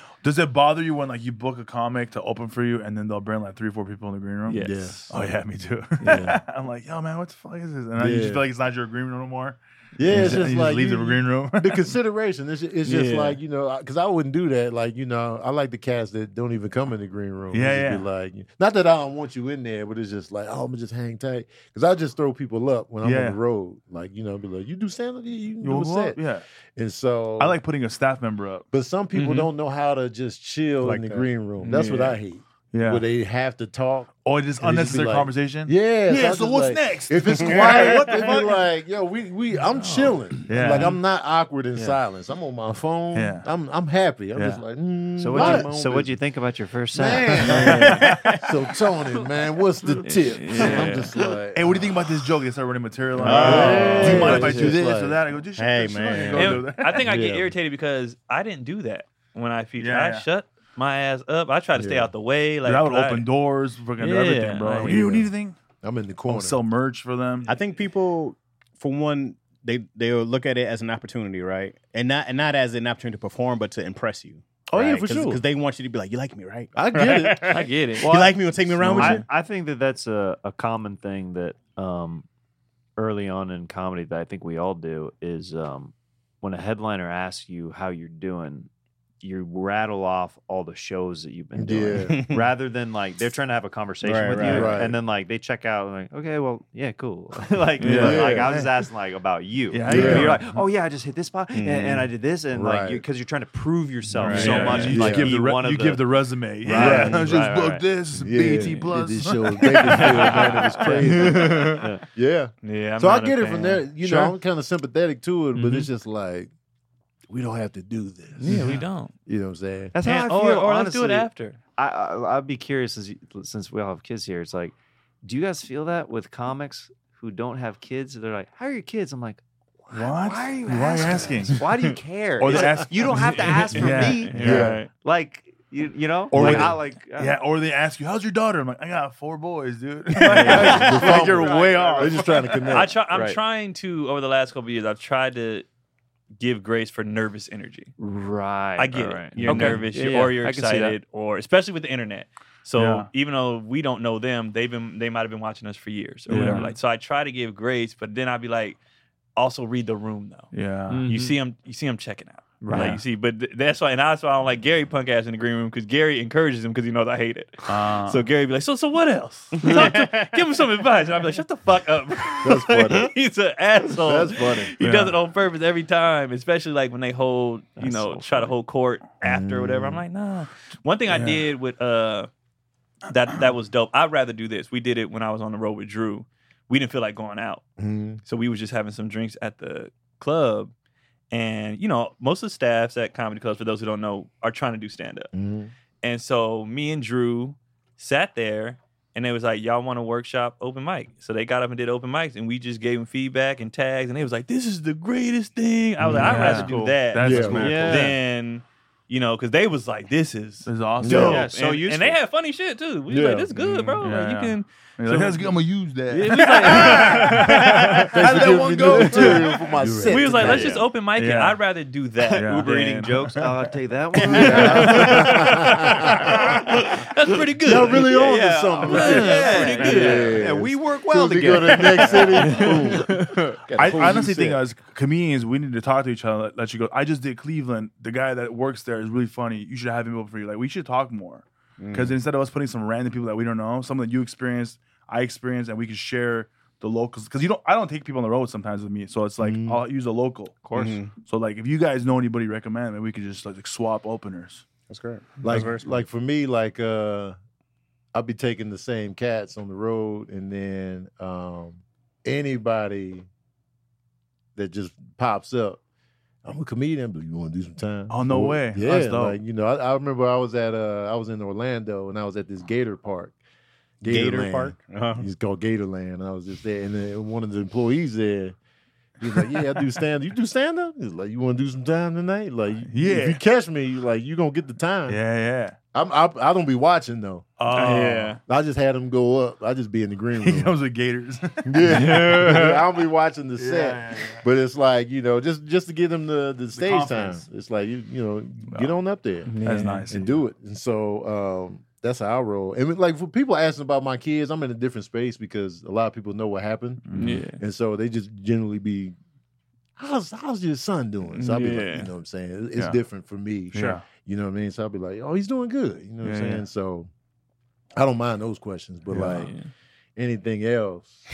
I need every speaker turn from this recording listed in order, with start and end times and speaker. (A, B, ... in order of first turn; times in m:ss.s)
0:00.2-0:11.8 A
0:04.5-0:05.1 B
0:04.6-0:05.1 C
0:06.0-0:06.3 B
0:06.0-0:06.4 C
0:08.0-0:08.4 C
0:10.0-0:26.2 C
0:12.8-0:13.4 B
0:17.5-0:18.1 A
0:23.0-0:23.4 A
0:25.6-0:26.4 A
0:26.7-0:27.6 C
0:27.4-0:28.6 A
0:28.7-0:46.2 C
0:29.1-0:29.5 B
0:30.8-0:31.3 D
0:31.6-0:32.2 B
0:32.7-0:33.0 A
0:34.2-0:38.5 A
0:37.5-0:38.2 D
0:39.7-0:40.2 B
0:40.5-0:41.0 A
0:43.1-0:43.5 A
0:44.4-0:44.6 A
0:45.2-0:47.9 E
0:45.3-0:45.7 D
0:46.9-0:51.8 C
0:47.3-0:48.5 D
0:47.5-0:48.2 A
0:50.0-0:51.1 B
0:51.5-0:57.0 A
0:53.2-0:55.2 C
0:53.2-0:54.5 D
0:53.4-0:54.7 B
0:55.6-0:56.7 D
0:56.3-1:03.3 B
0:57.0-0:57.5 C
0:59.8-1:00.2 A
1:01.8-1:02.1 C
1:02.6-1:05.6 A
1:04.0-1:05.0 B
1:04.8-1:06.6 C
1:06.3-1:07.5 A
1:07.4-1:19.2 D
1:14.7-1:15.4 C
1:16.7-1:17.6 C
1:17.5-1:18.3 B
1:18.8-1:19.1 C
1:18.9-1:22.2 E
1:23.0-1:28.7 E
1:29.2-1:46.1 E
1:31.5-1:32.2 C
1:32.1-1:32.5 D
1:34.0-1:34.8 D
1:34.4-1:35.0 C
1:37.8-1:38.7 A
1:37.8-1:38.5 C
1:39.7-1:40.5 A
1:39.9-1:40.4 C
1:41.5-1:42.1 D
1:42.5-1:43.0 C
1:44.2-1:44.9 D
1:44.2-1:50.4 A
1:44.7-1:45.4 C
1:46.6-1:47.8 E
1:46.7-1:47.8 B
1:46.8-1:47.1 C
1:48.2-1:56.5 C
1:48.5-1:48.9 B
1:50.0-1:51.8 B
1:50.1-1:52.0 E
1:52.6-1:54.3 B
1:55.5-1:55.9 E
1:57.3-1:59.9 C
1:58.4-1:59.1 B
1:58.5-1:58.8 E
1:59.9-2:17.4 E
2:00.0-2:01.6 B
2:09.9-2:11.6 A
2:12.4-2:14.8 A
2:13.7-2:14.9 B
2:14.4-2:14.8 C
2:16.3-2:22.7 A
2:16.3-2:16.8 C
2:20.2-2:22.3 E
2:20.2-2:23.0 C
2:20.4-2:20.8 B
2:22.7-2:25.7 B
2:23.1-2:23.4 E
2:26.4-2:27.9 B
2:28.0-2:31.0 E
2:28.8-2:38.8 B
2:29.3-2:29.9 A
2:32.8-2:33.1 A
2:36.3-2:36.7 A
2:36.3-2:36.8 E
2:39.4-3:02.3 B
2:40.5-2:41.0 A
2:40.9-2:41.3 E
2:42.6-2:43.0 E
2:42.7-2:43.0 A
2:47.7-2:48.2 A
2:49.6-2:50.1 E
2:52.4-2:53.1 C
2:54.0-2:54.7 C
2:54.8-2:55.2 A
2:57.8-2:58.5 E
2:59.2-3:00.0 C
3:01.1-3:01.4 A
3:03.1-3:07.6 B
3:07.8-3:08.2 C
3:08.2-3:10.7 B
3:11.3-3:15.3 B
3:15.3-3:15.7 C
3:16.0-3:35.5 B
3:26.1-3:28.0 A
3:26.2-3:26.9 E
3:27.2-3:27.8 C
3:27.2-3:28.1 D
3:27.6-3:28.1 E
3:30.6-3:31.5 A
3:31.0-3:31.5 C
3:31.2-3:32.2 E
3:33.1-3:33.5 C
3:33.6-3:40.2 A
3:36.1-3:37.8 B
3:37.1-3:37.4 E
3:38.0-3:40.7 C
3:39.1-3:39.3 B
3:40.0-3:42.5 B
3:40.2-3:40.9 E
3:41.1-3:41.6 A
3:42.4-3:46.6 E
3:42.4-3:43.6 A
3:44.2-3:44.7 D
3:44.2-3:45.4 A
3:44.2-3:46.6 C
3:44.3-3:48.0 B
3:47.6-3:54.6 C
3:47.9-3:53.6 E
3:48.3-3:50.0 D
3:48.8-3:50.4 B
3:52.4-3:52.9 B
3:53.8-4:10.6 A
4:01.8-4:02.2 D
4:09.4-4:09.8 C
4:10.6-4:11.0 E
4:10.7-4:11.1 D
4:11.1-4:14.7 A
4:14.9-4:16.0 D
4:15.4-4:17.4 C
4:18.1-4:23.3 C
4:24.5-4:25.8 C
4:26.4-4:33.4 C
4:28.1-4:29.4 A
4:34.0-4:38.6 C
4:34.1-4:35.3 D
4:39.2-4:45.2 C
4:42.9-4:43.4 A
4:45.1-4:45.8 A
4:45.9-4:47.6 C
4:47.6-4:48.4 A
4:47.7-4:48.4 B
4:48.4-4:50.8 C
4:50.4-4:52.6 A
4:51.6-4:59.5 C
4:51.8-4:52.8 B
4:53.6-4:54.4 A
4:56.7-4:57.4 A
4:58.6-4:59.0 A
4:59.4-5:00.1 B
4:59.6-5:00.4 A
5:00.1-5:09.1 C
5:07.0-5:07.4 A
5:07.1-5:07.6 B
5:10.0-5:17.1 C
5:11.3-5:12.1 B
5:13.7-5:14.0 A
5:16.2-5:16.6 A
5:17.9-5:19.5 C
5:19.1-5:19.5 A
5:19.3-5:19.7 B
5:20.2-5:21.2 C